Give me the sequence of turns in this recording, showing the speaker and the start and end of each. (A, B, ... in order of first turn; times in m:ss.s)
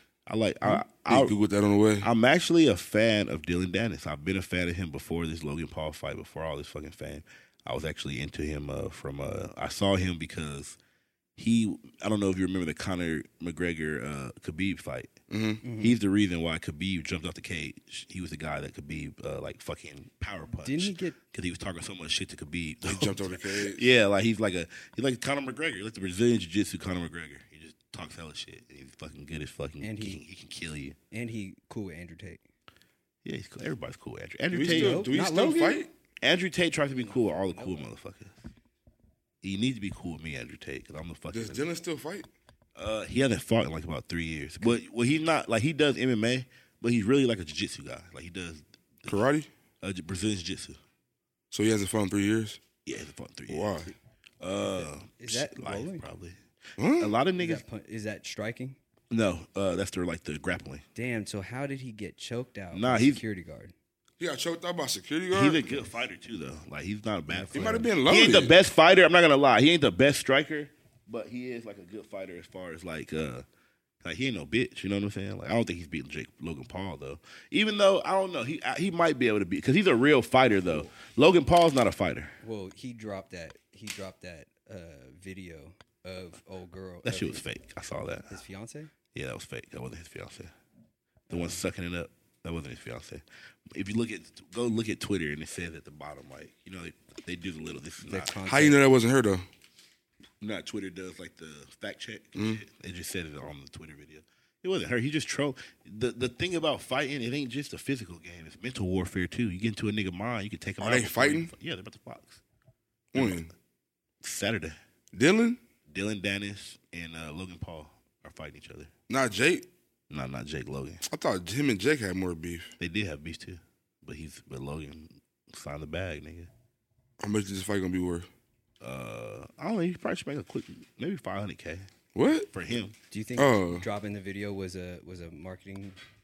0:00.2-0:01.3 A
0:00.6-0:02.1 B
0:02.0-0:10.8 A
0:11.4-0:15.1 A
0:15.3-0:15.6 B
0:15.6-0:16.0 C
0:15.8-0:31.0 A
0:20.6-0:21.2 C
0:22.8-0:23.9 B
0:29.8-0:30.2 C
0:31.1-0:32.4 C
0:33.2-0:35.1 A
0:34.5-0:35.9 B
0:34.7-0:35.8 C
0:36.2-0:38.4 A
0:37.0-0:37.9 C
0:39.4-0:41.6 A
0:41.3-0:42.3 B
0:42.8-0:49.2 A
0:49.1-0:49.5 B
0:49.8-0:50.8 A
0:51.5-0:52.6 B
0:52.8-0:53.8 A
0:53.5-0:53.9 B
0:54.4-0:56.4 A
0:55.2-0:56.0 C
0:56.8-0:57.1 B
0:57.0-0:57.6 A
0:57.4-0:58.8 C
0:59.1-1:00.8 A
1:00.9-1:03.7 C
1:02.7-1:03.2 A
1:04.2-1:05.7 B
1:05.3-1:13.4 A
1:07.5-1:08.6 B
1:14.0-1:22.3 A
1:22.4-1:27.4 C
1:27.0-1:28.4 A
1:28.3-1:28.9 C
1:29.1-1:30.5 A
1:31.3-1:31.6 C
1:31.3-1:38.4 A
1:38.0-1:38.8 C
1:38.4-1:39.4 B
1:40.4-1:52.4 A
1:42.4-1:42.6 B
1:50.8-1:51.5 B
1:53.1-1:53.5 B
1:53.1-1:53.4 A
1:54.2-1:54.8 A
1:55.1-1:55.6 B
1:55.9-1:58.9 A
1:59.1-1:59.7 B
2:00.1-2:01.0 A
2:01.1-2:02.7 B
2:02.8-2:06.5 A
2:07.2-2:08.3 B
2:08.8-2:11.9 A
2:12.1-2:12.5 B
2:12.5-2:12.9 A
2:13.1-2:16.0 C
2:13.4-2:13.8 B